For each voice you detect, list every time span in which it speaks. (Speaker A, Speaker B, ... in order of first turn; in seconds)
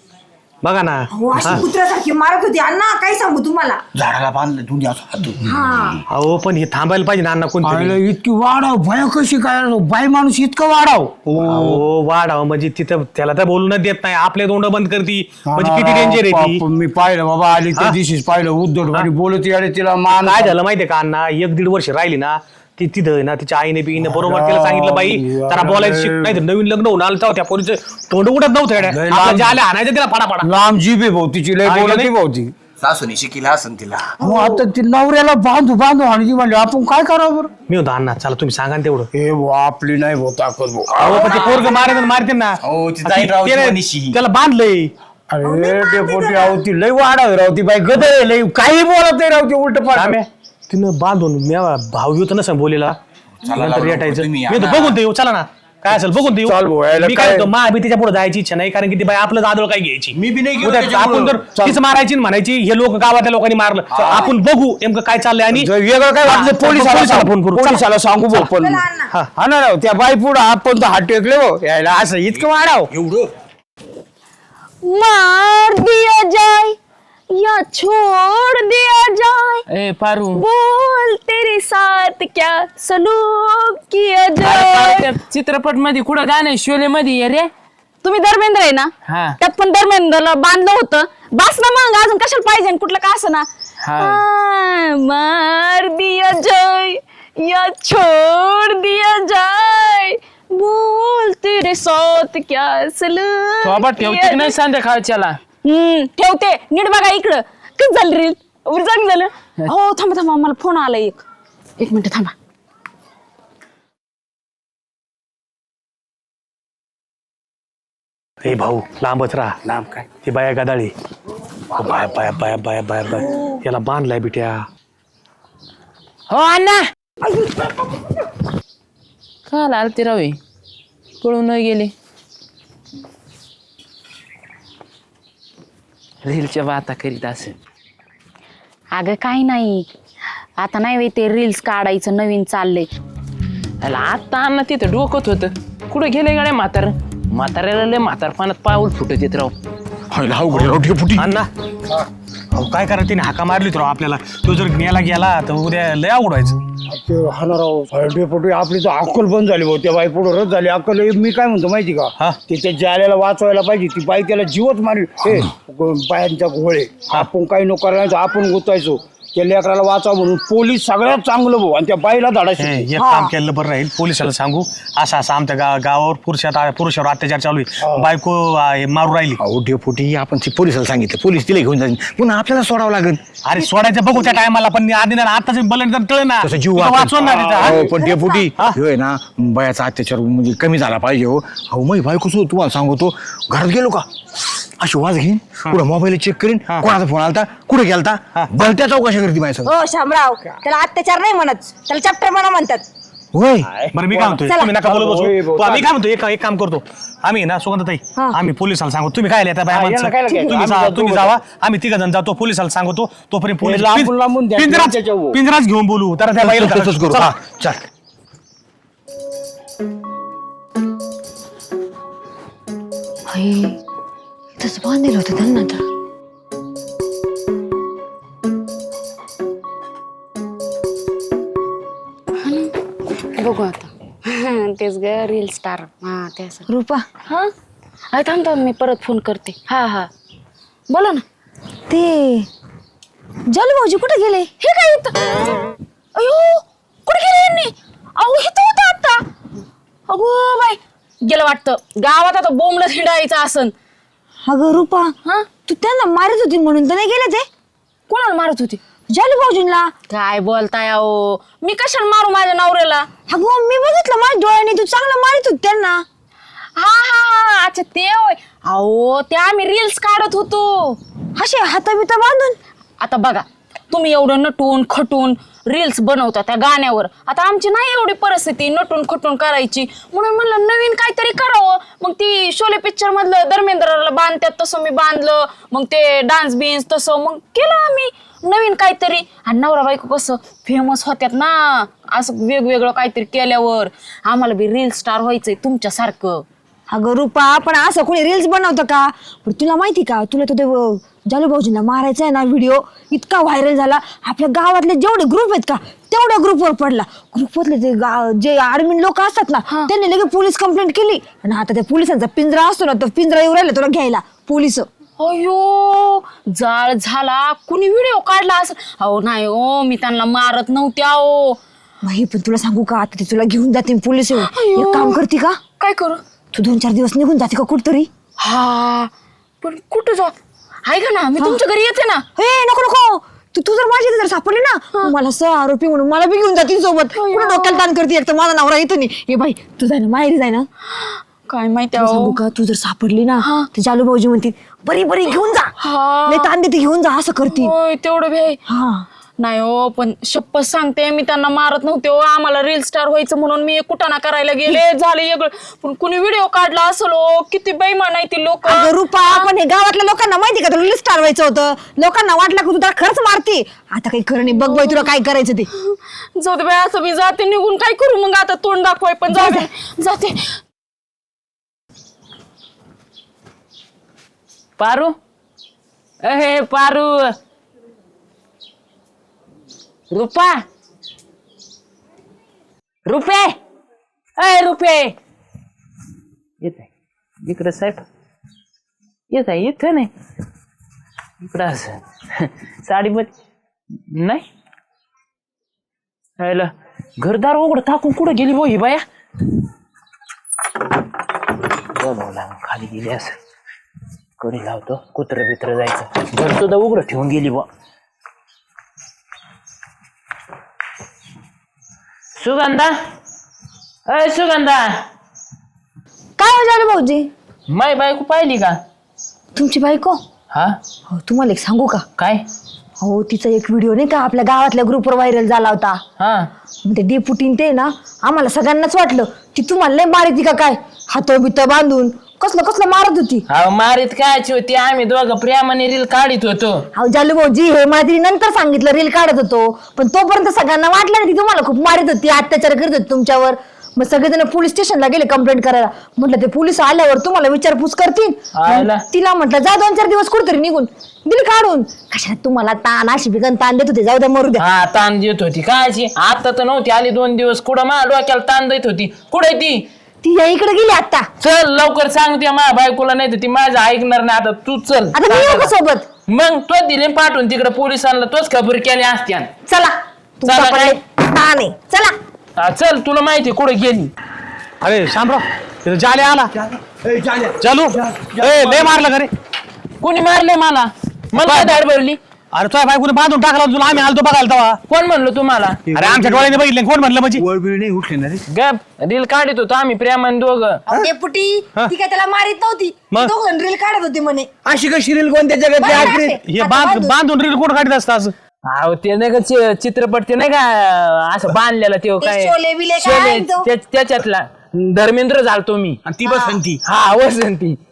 Speaker A: 0.6-1.6, 6.1-8.0, 11.3-16.6, 17.7-18.0, 20.0-30.5, 31.6-32.1, 37.7-39.1, 41.0-44.9, 49.9-53.0, 53.5-65.7, 66.2-68.5, 118.4-120.9, 121.7-124.6, 150.5-151.5, 152.5-156.6, 172.6-179.4, 183.4-187.8, 188.5-188.8, 203.9-217.4, 474.8-476.5, 477.6-479.3, 481.4-481.7, 482.5-484.8, 485.9-487.4, 495.9-498.3
Speaker B: 1.1-3.8, 5.4-6.0, 34.2-34.6, 41.3-42.0, 45.4-46.6, 68.5-69.1, 127.2-128.1, 183.7-184.1, 187.6-188.5, 199.6-202.8, 204.4-204.7, 223.3-223.8, 224.6-225.8, 236.7-237.1, 241.9-242.5, 243.5-244.5, 254.4-257.4, 259.1-259.9, 263.3-266.0, 271.4-272.6, 296.9-314.9, 322.0-325.6, 326.5-328.1, 332.4-340.7, 341.9-345.7, 346.2-347.7, 348.7-349.1, 358.6-365.7, 369.3-369.7, 416.4-417.3, 419.5-420.2, 421.1-422.0, 423.0-426.0, 426.9-433.4, 436.9-454.6, 460.2-461.3, 465.1-466.1, 469.7-472.1, 490.9-494.5, 495.8-497.1, 502.2-503.7, 506.2-506.6
Speaker C: 1.3-1.6, 3.9-6.0, 17.3-17.9, 18.7-19.8, 28.8-29.5, 32.8-34.2, 41.0-41.7, 42.6-44.2, 53.4-55.0, 60.1-61.6, 63.9-64.4, 72.3-73.3, 119.7-120.1, 150.1-151.3, 179.4-183.2, 186.4-199.7, 203.3-203.7, 216.4-217.8, 476.5-479.0, 485.9-486.6, 487.3-488.4, 494.6-496.4, 506.1-506.8
Speaker D: 7.6-11.8, 15.4-20.5, 24.1-26.4, 29.1-29.4, 30.4-32.5, 34.2-37.5, 39.1-41.1, 45.3-50.2, 56.4-57.5, 61.5-61.8, 65.5-68.8, 69.3-72.9, 156.9-173.0, 203.7-205.9, 209.7-211.3, 213.6-215.4
Speaker E: 74.8-76.8, 77.3-79.6, 80.3-85.1, 88.0-93.5, 94.0-104.5, 105.6-111.2, 111.8-112.3, 138.9-139.8, 140.6-142.9, 232.4-232.7, 233.3-236.7, 238.1-240.1, 240.9-241.2, 244.6-245.5, 246.1-249.2, 250.1-253.7, 258.1-258.8, 260.1-263.1, 266.8-271.0, 273.0-296.4, 315.2-321.6, 324.4-325.2, 325.8-326.2, 328.4-329.1, 329.6-330.3, 330.8-332.2, 337.1-337.9, 340.9-342.4, 343.4-343.7, 345.8-346.5, 347.5-348.6, 349.4-359.5, 364.5-365.1, 365.8-370.6
Speaker F: 79.7-80.4, 84.4-87.5, 89.1-89.3, 93.8-94.2, 103.6-105.4, 126.3-126.9, 129.5-130.4, 131.2-131.9, 136.2-137.5, 143.8-149.6, 374.8-375.1, 376.2-377.3, 380.1-380.6, 383.1-383.6, 384.4-385.1, 386.6-386.9, 387.4-388.0, 389.3-390.1, 391.4-393.3, 394.1-394.4, 396.4-399.0, 401.9-403.4, 404.4-407.7, 412.4-413.0, 414.1-415.1, 417.7-418.8, 420.5-420.8, 422.2-422.4, 426.2-426.5, 433.5-436.8, 448.6-449.0, 454.6-459.9, 461.4-465.7, 466.3-469.5, 470.4-471.0, 472.6-474.1, 480.0-482.2, 484.9-485.8, 488.5-490.8, 498.7-506.0, 506.8-507.8